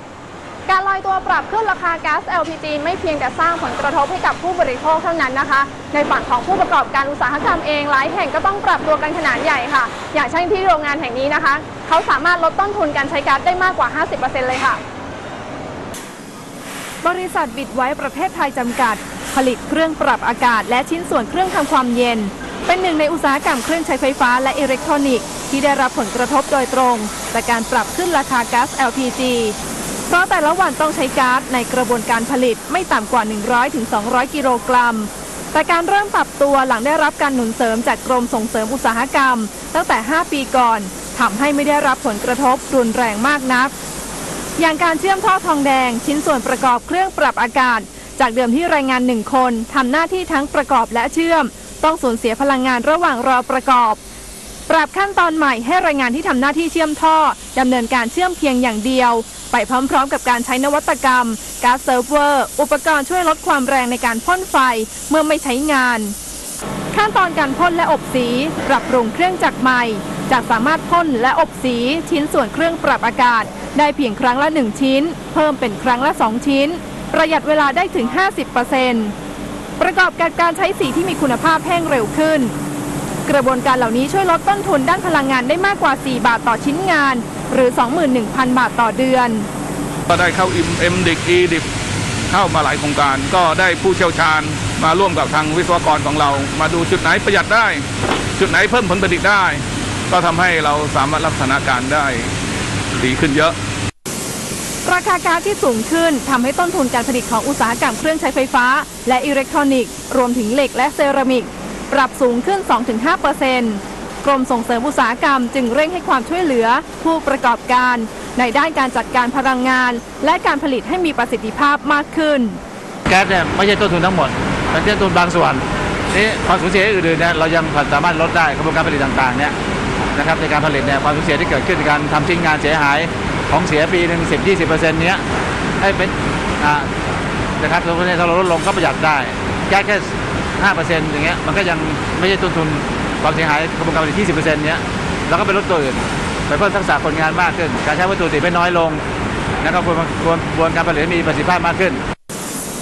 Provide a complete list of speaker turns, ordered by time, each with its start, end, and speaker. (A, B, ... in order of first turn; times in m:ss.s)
0:00.7-0:01.2 A
0:01.0-0:14.0 B
0:01.7-0:02.0 A
0:02.7-0:04.2 A
0:05.2-0:07.4 A
0:08.0-0:14.8 A
0:17.0-0:29.6 B
0:30.1-0:43.7 B
0:44.6-0:54.0 B
0:54.7-1:06.1 B
1:06.9-1:19.1 B
1:19.8-1:22.5 B
1:23.2-1:29.5 B
1:30.1-1:31.6 C
1:32.3-1:37.8 C
1:38.4-1:42.3 C
1:43.0-1:43.5 C
1:44.8-2:02.6 B
2:03.1-2:09.5 D
2:10.1-2:15.2 D
2:15.8-2:16.9 D
2:17.6-2:29.0 D
2:29.6-2:32.0 D